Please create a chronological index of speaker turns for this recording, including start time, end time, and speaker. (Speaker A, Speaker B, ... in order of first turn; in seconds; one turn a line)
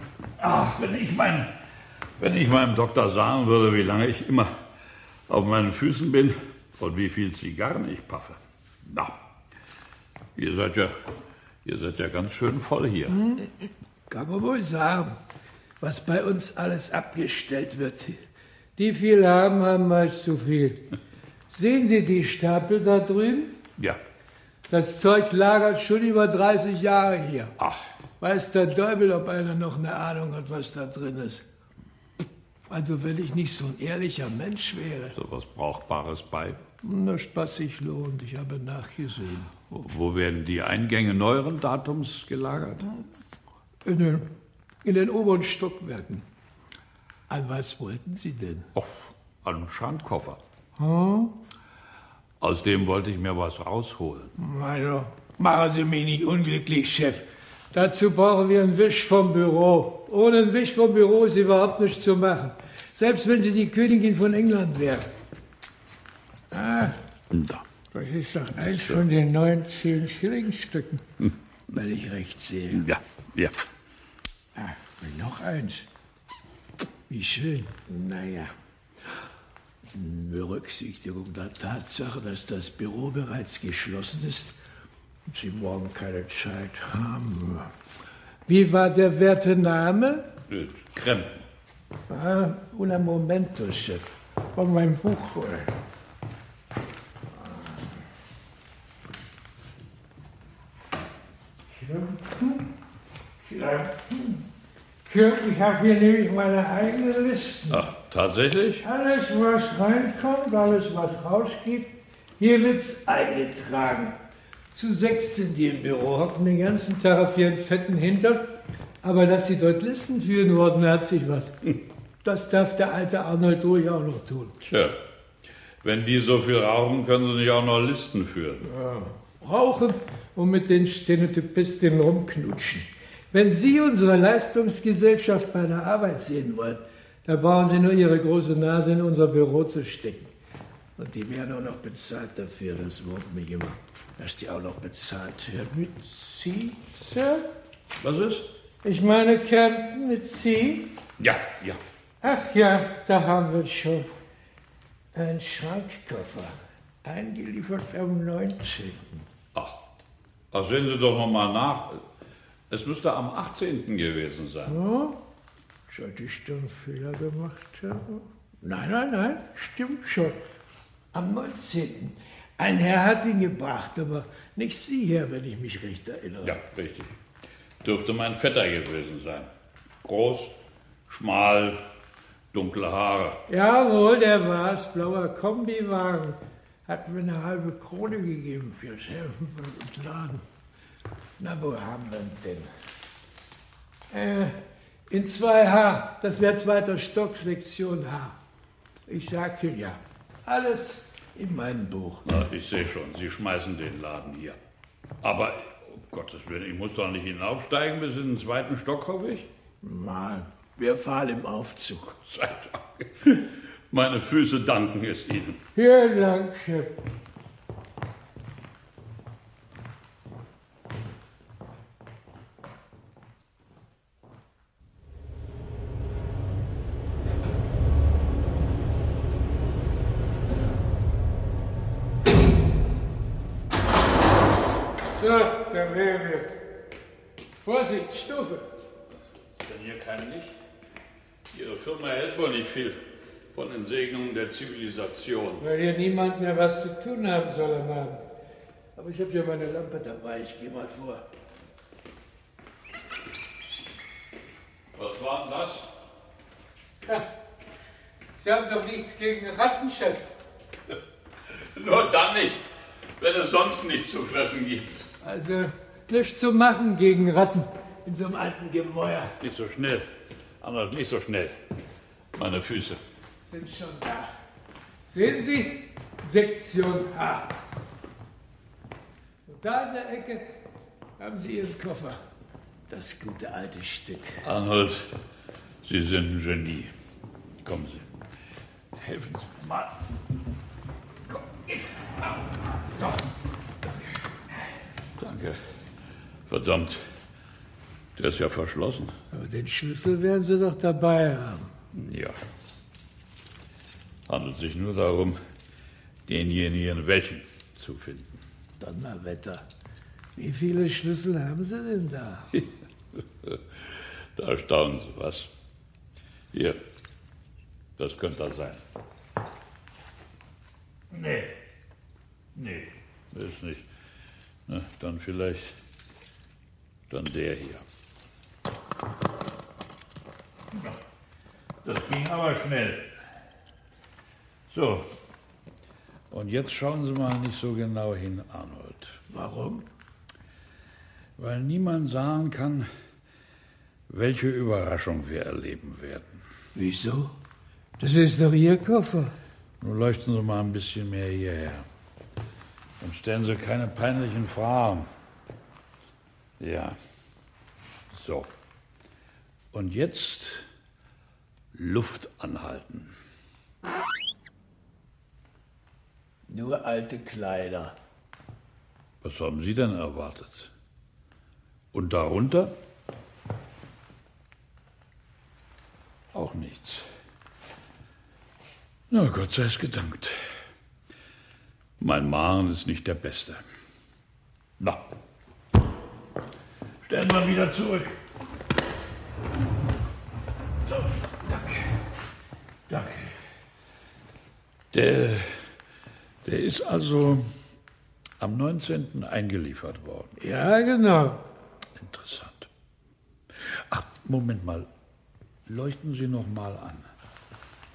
Speaker A: 0.4-1.5
Speaker A: 2.2-4.5
Speaker A: 5.3-9.2
Speaker A: 10.3-11.1
Speaker A: 11.6-13.2
Speaker B: 13.1-13.5
Speaker B: 14.1-15.2
Speaker B: 15.8-18.2
Speaker B: 18.8-20.9
Speaker B: 21.5-23.6
Speaker B: 24.7-27.6
Speaker A: 27.6-27.9
Speaker B: 28.2-31.4
Speaker B: 32.7-35.1
Speaker A: 35.1-36.6
Speaker B: 36.8-39.6
Speaker A: 39.7-42.9
Speaker B: 43.9-44.3
Speaker B: 44.9-46.2
Speaker B: 47.3-48.7
Speaker A: 48.7-50.4
Speaker B: 50.8-51.4
Speaker A: 52.4-54.4
Speaker B: 54.4-65.1
Speaker B: 66.5-67.0
Speaker A: 67.3-67.6
Speaker B: 67.9-71.0
Speaker A: 68.6-69.0
Speaker B: 71.7-72.9
Speaker A: 72.7-73.6
Speaker B: 74.6-75.8
Speaker B: 77.1-78.5
Speaker B: 79.9-84.6
Speaker B: 85.3-87.7
Speaker B: 88.5-90.3
Speaker A: 90.5-91.4
Speaker B: 92.1-95.7
Speaker B: 97.4-97.8
Speaker B: 101.7-102.7
Speaker B: 103.4-104.4
Speaker B: 105.0-107.8
Speaker A: 107.7-108.9
Speaker B: 108.8-114.2
Speaker B: 114.7-121.7
Speaker B: 122.2-124.5
Speaker A: 124.6-125.0
Speaker A: 125.8-128.7
Speaker B: 128.7-140.3
Speaker B: 141.0-147.5
Speaker A: 148.0-148.5
Speaker B: 148.8-151.0
Speaker A: 151.2-151.8
Speaker B: 152.2-154.2
Speaker B: 155.1-159.2
Speaker A: 159.5-159.8
Speaker A: 160.5-162.0
Speaker A: 162.7-164.8
Speaker B: 164.7-165.2
Speaker B: 165.9-170.4
Speaker B: 171.1-176.6
Speaker A: 176.4-177.2
Speaker A: 177.8-179.5
Speaker A: 180.0-180.6
Speaker A: 181.1-181.8
Speaker A: 182.5-183.4
Speaker B: 183.5-190.4
Speaker B: 191.4-192.7
Speaker B: 194.1-194.6
Speaker B: 195.1-198.4
Speaker B: 199.1-202.3
Speaker A: 202.2-204.6
Speaker A: 205.2-209.5
Speaker B: 209.8-212.2
Speaker A: 212.2-215.6
Speaker B: 215.7-217.0
Speaker B: 235.1-236.6
Speaker B: 237.6-238.7
Speaker A: 239.6-240.6
Speaker A: 241.5-245.7
Speaker B: 245.6-248.2
Speaker B: 248.9-251.2
Speaker A: 254.9-255.9
Speaker B: 258.4-260.3
Speaker A: 261.5-262.6
Speaker A: 263.2-265.1
Speaker B: 265.2-269.3
Speaker A: 269.4-270.1
Speaker A: 270.6-271.6
Speaker A: 272.4-273.0
Speaker B: 273.5-274.3
Speaker B: 275.1-277.5
Speaker B: 279.5-280.6
Speaker B: 281.2-282.2
Speaker B: 282.9-284.4
Speaker A: 284.4-285.1
Speaker A: 285.8-286.9
Speaker A: 287.6-288.1
Speaker A: 288.9-290.0
Speaker A: 291.3-292.5
Speaker A: 295.2-295.8
Speaker A: 296.5-297.1
Speaker A: 298.1-299.2
Speaker B: 299.3-301.7
Speaker A: 301.9-302.4
Speaker A: 304.3-305.4
Speaker A: 306.2-308.4
Speaker B: 308.8-309.6
Speaker B: 310.4-312.6
Speaker A: 312.6-315.5
Speaker A: 316.5-316.8
Speaker A: 318.0-318.8
Speaker A: 321.1-321.6
Speaker A: 322.6-323.9
Speaker A: 324.7-325.8
Speaker A: 327.1-327.8
Speaker A: 331.8-333.1
Speaker A: 334.7-335.1
Speaker A: 336.3-339.2
Speaker B: 339.3-339.9
Speaker A: 341.4-342.9
Speaker A: 344.1-346.4
Speaker B: 346.7-347.4
Speaker B: 348.0-349.4
Speaker A: 349.8-351.9
Speaker A: 353.0-355.1
Speaker A: 356.6-357.0
Speaker A: 358.1-358.5
Speaker A: 359.7-360.6
Speaker A: 361.7-363.1
Speaker B: 366.5-367.9
Speaker A: 369.2-370.7
Speaker A: 371.9-372.8
Speaker A: 376.3-377.1
Speaker A: 379.1-380.4
Speaker A: 382.0-383.6
Speaker A: 387.1-388.2
Speaker A: 390.9-391.9
Speaker A: 392.9-393.4
Speaker A: 394.9-395.7
Speaker A: 396.4-397.5
Speaker A: 398.4-400.4
Speaker B: 400.4-401.4
Speaker A: 402.0-402.7
Speaker A: 403.6-404.9
Speaker A: 405.7-407.1